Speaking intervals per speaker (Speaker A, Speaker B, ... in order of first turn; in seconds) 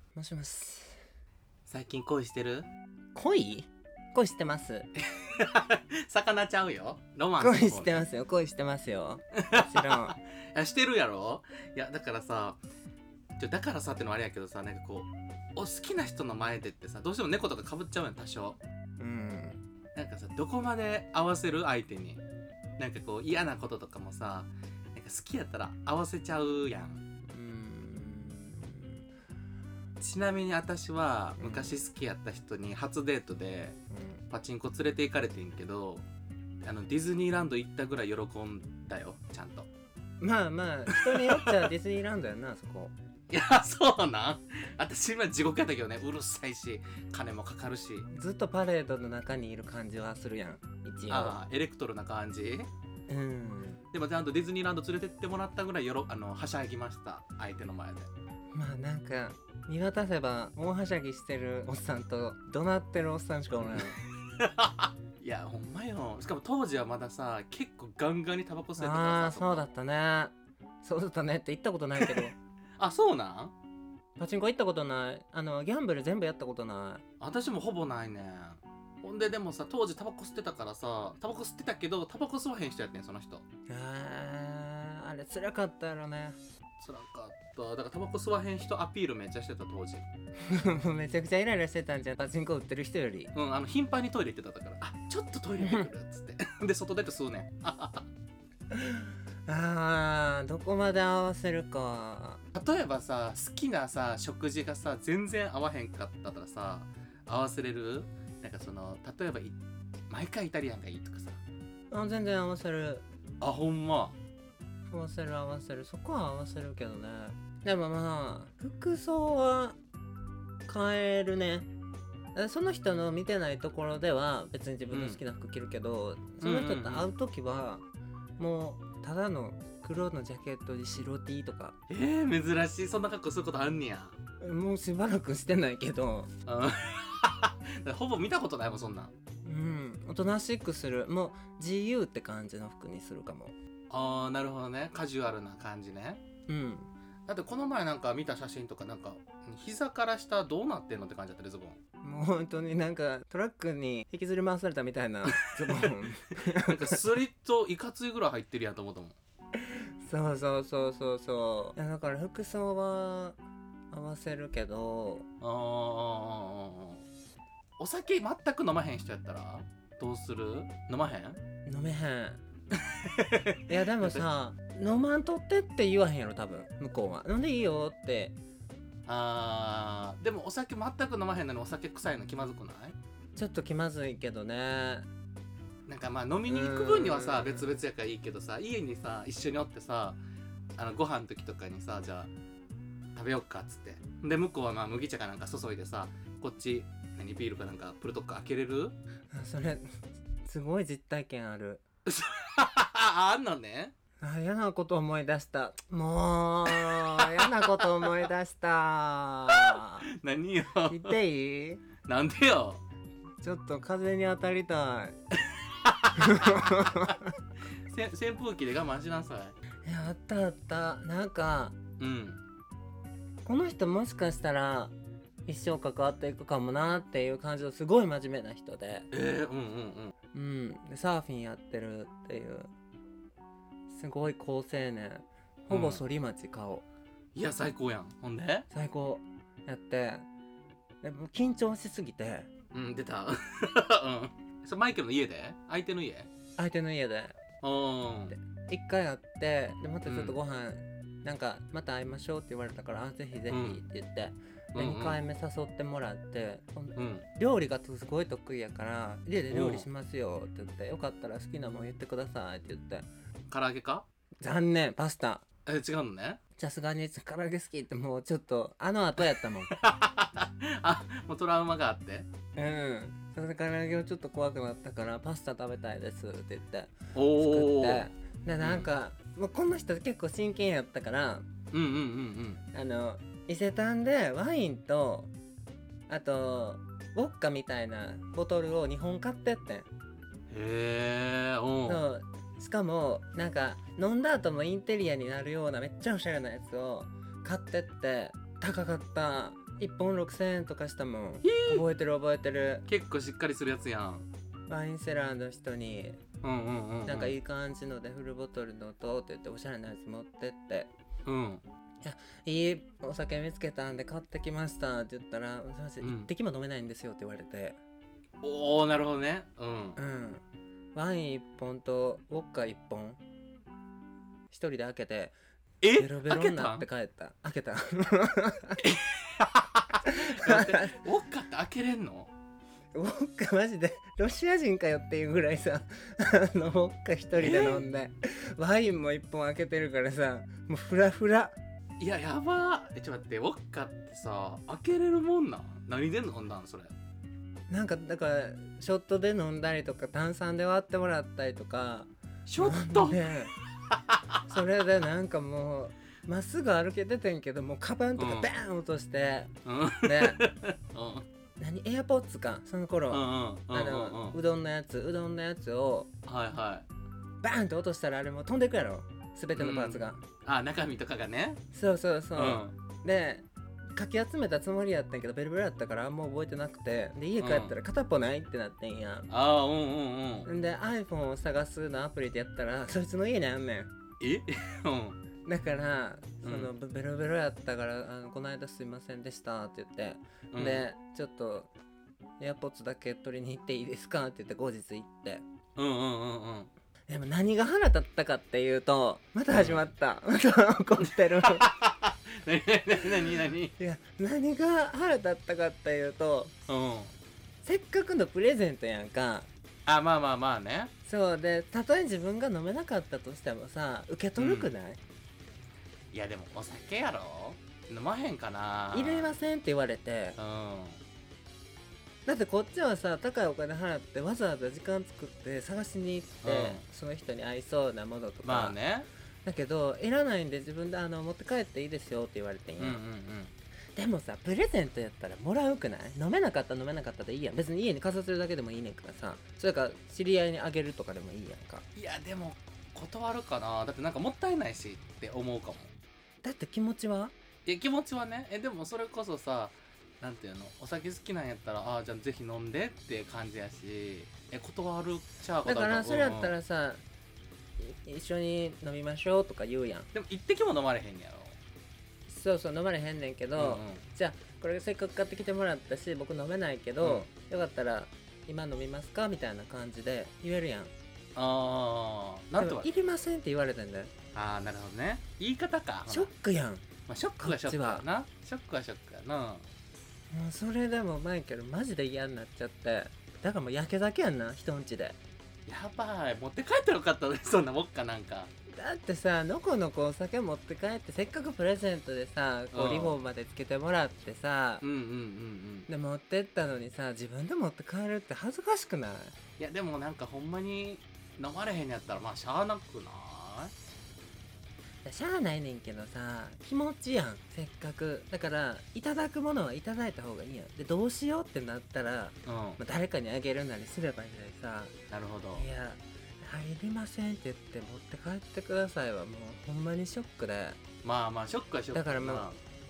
Speaker A: 0.1-1.0, 3.1-4.9, 7.4-10.2, 19.0-19.6, 27.3-29.0, 31.4-31.8, 33.9-34.2, 40.2-42.9, 48.1-51.4, 53.1-53.8, 58.5-64.0, 68.8-72.3, 74.2-77.0, 83.7-86.4, 90.4-93.3, 98.7-102.4, 111.9-113.0, 114.9-119.8, 120.7-121.7, 122.3-127.8, 128.4-131.8, 134.4-136.3, 139.4-143.5, 146.5-146.9, 152.0-157.0, 159.6-163.4, 163.9-165.2, 171.7-172.4, 173.7-178.4, 183.3-185.1, 186.4-187.7, 199.3-201.8, 204.2-210.1, 210.9-211.8, 213.4-215.2, 216.2-217.3, 219.8-221.7, 223.4-224.9, 225.5-229.1, 230.3-232.7, 233.9-236.8, 238.7-240.2, 241.0-242.5, 246.6-247.4, 248.3-263.1, 264.4-265.4, 266.6-269.7, 272.6-281.5, 282.7-285.3, 286.1-289.9, 291.9-302.9, 304.7-306.2, 307.1-310.9, 312.0-317.8, 319.9-323.2, 324.5-325.3, 326.0-328.8, 330.0-330.9, 332.9-341.6, 347.7-353.5, 354.5-359.5, 360.0-360.4, 361.6-366.1, 367.4-370.2, 371.7-379.3, 380.4-383.9, 385.4-391.7, 392.4-395.4, 397.1-401.7, 403.8-406.5, 407.6-409.5, 411.0-415.0, 418.9-420.4, 422.2-428.8, 429.4-433.0, 433.9-441.9, 446.4-447.3, 455.6-457.0, 457.8-460.1, 462.3-470.9, 472.6-474.1, 476.1-476.9, 477.4-478.1, 480.3-485.2, 488.7-494.8, 495.9-499.3, 505.0-514.9, 515.5-520.8, 521.9-522.5
Speaker B: 1.7-2.7, 5.1-8.0, 9.4-12.6, 13.4-18.6, 19.9-22.2, 22.8-27.0, 30.0-33.8, 34.3-36.1, 36.6-39.7, 40.9-41.7, 43.3-48.1, 51.1-52.7, 53.9-58.1, 63.6-69.6, 72.0-73.5, 77.2-83.4, 86.8-90.1, 93.3-98.1, 102.5-109.6, 110.1-111.4, 113.4-114.2, 124.9-125.2, 126.4-127.1, 131.9-134.2, 136.4-139.1, 143.9-146.2, 147.3-151.8, 155.3-159.2, 165.4-167.0, 167.8-171.4, 172.8-174.2, 179.1-182.9, 185.9-190.2, 190.8-192.3, 193.1-198.9, 202.1-203.9, 206.8-208.3, 209.5-211.1, 212.0-212.8, 215.8-217.1, 217.8-219.6, 222.0-222.4, 229.1-230.1, 235.7-236.0, 237.3-238.7, 242.7-246.3, 247.6-248.3, 250.1-250.4, 253.5-253.8, 254.7-255.2, 256.9-257.2, 259.5-259.9, 263.5-264.1, 265.6-266.4, 269.7-272.3, 277.1-278.1, 278.6-278.9, 281.7-282.6, 290.5-292.1, 301.4-301.8, 302.9-304.3, 306.4-307.4, 311.2-311.6, 316.0-316.3, 318.4-320.0, 325.8-326.9, 328.8-332.3, 337.3-337.9, 342.0-346.9, 352.4-353.2, 353.9-354.4, 358.2-358.5, 359.6-361.2, 363.1-364.4, 366.2-366.9, 369.5-371.6, 372.3-372.7, 377.4-377.7, 379.3-380.5, 384.2-385.2, 386.4-386.7, 390.5-390.9, 395.8-396.7, 399.5-399.8, 401.0-403.7, 406.7-407.1, 409.9-410.9, 414.4-414.7, 416.1-419.4, 420.4-421.0, 426.4-426.8, 428.4-429.1, 432.8-433.5, 441.9-445.9, 447.6-456.5, 460.1-461.6, 463.6-464.0, 467.0-467.3, 471.3-472.9, 474.3-476.3, 477.1-479.7, 485.6-488.5, 492.7-493.2, 494.8-495.9, 499.6-503.7, 512.5-512.8, 515.1-515.7, 521.0-522.6